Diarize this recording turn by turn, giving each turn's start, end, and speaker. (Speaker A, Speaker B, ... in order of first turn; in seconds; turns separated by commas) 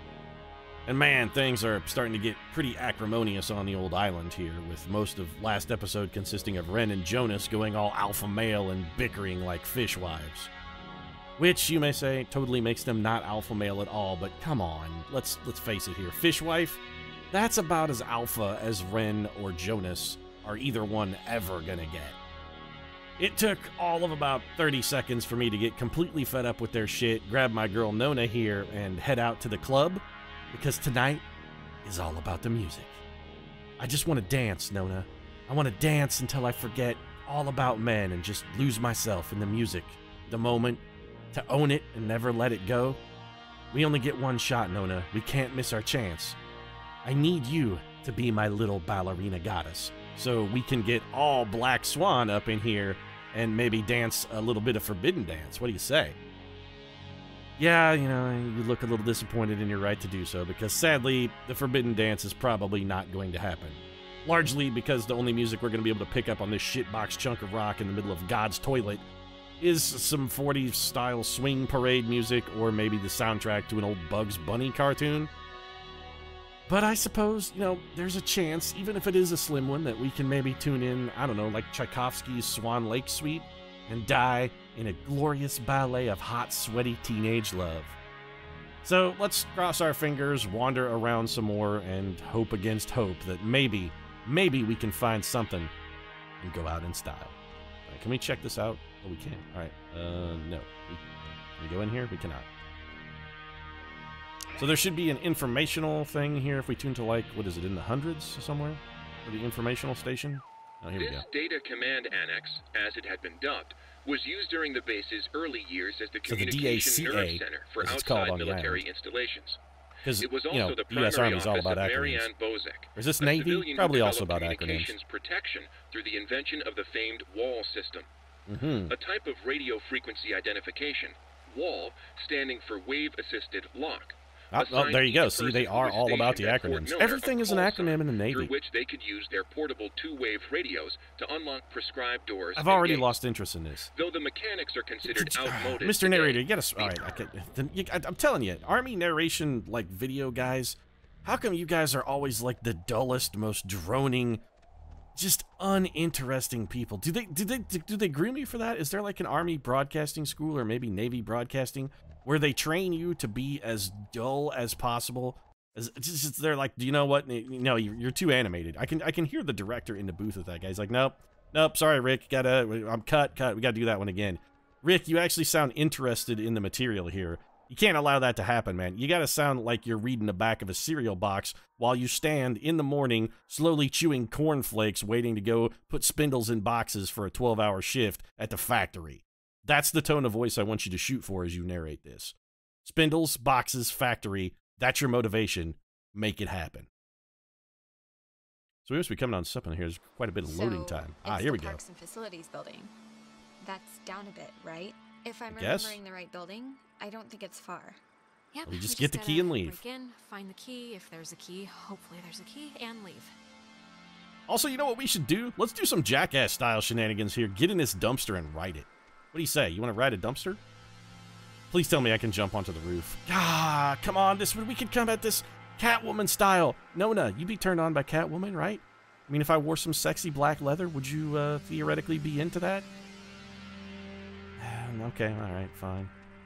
Speaker A: 0.8-10.5, Speaker A: 11.4-16.8, Speaker A: 17.3-22.2, Speaker A: 23.2-31.2, Speaker A: 31.8-33.0, Speaker A: 33.8-43.0, Speaker A: 43.7-46.4, Speaker A: 47.0-56.2, Speaker A: 57.6-69.0, Speaker A: 69.6-75.3, Speaker A: 76.7-88.0, Speaker A: 88.8-95.7, Speaker A: 96.4-97.3, Speaker A: 97.9-101.0, Speaker A: 101.6-102.5, Speaker A: 104.5-111.2, Speaker B: 111.0-119.6, Speaker A: 116.2-118.8, Speaker A: 120.0-122.3, Speaker B: 120.2-128.1, Speaker A: 123.0-124.9, Speaker A: 128.5-128.9, Speaker B: 128.9-143.2, Speaker A: 134.5-138.5, Speaker A: 142.6-143.9, Speaker B: 143.9-147.2, Speaker A: 145.0-154.4, Speaker A: 155.1-196.9, Speaker A: 198.8-201.8, Speaker C: 200.4-202.9, Speaker C: 203.6-208.0, Speaker A: 205.5-206.0, Speaker D: 208.5-213.3, Speaker A: 208.7-209.8, Speaker A: 214.5-220.6, Speaker A: 221.7-232.9, Speaker A: 234.6-236.1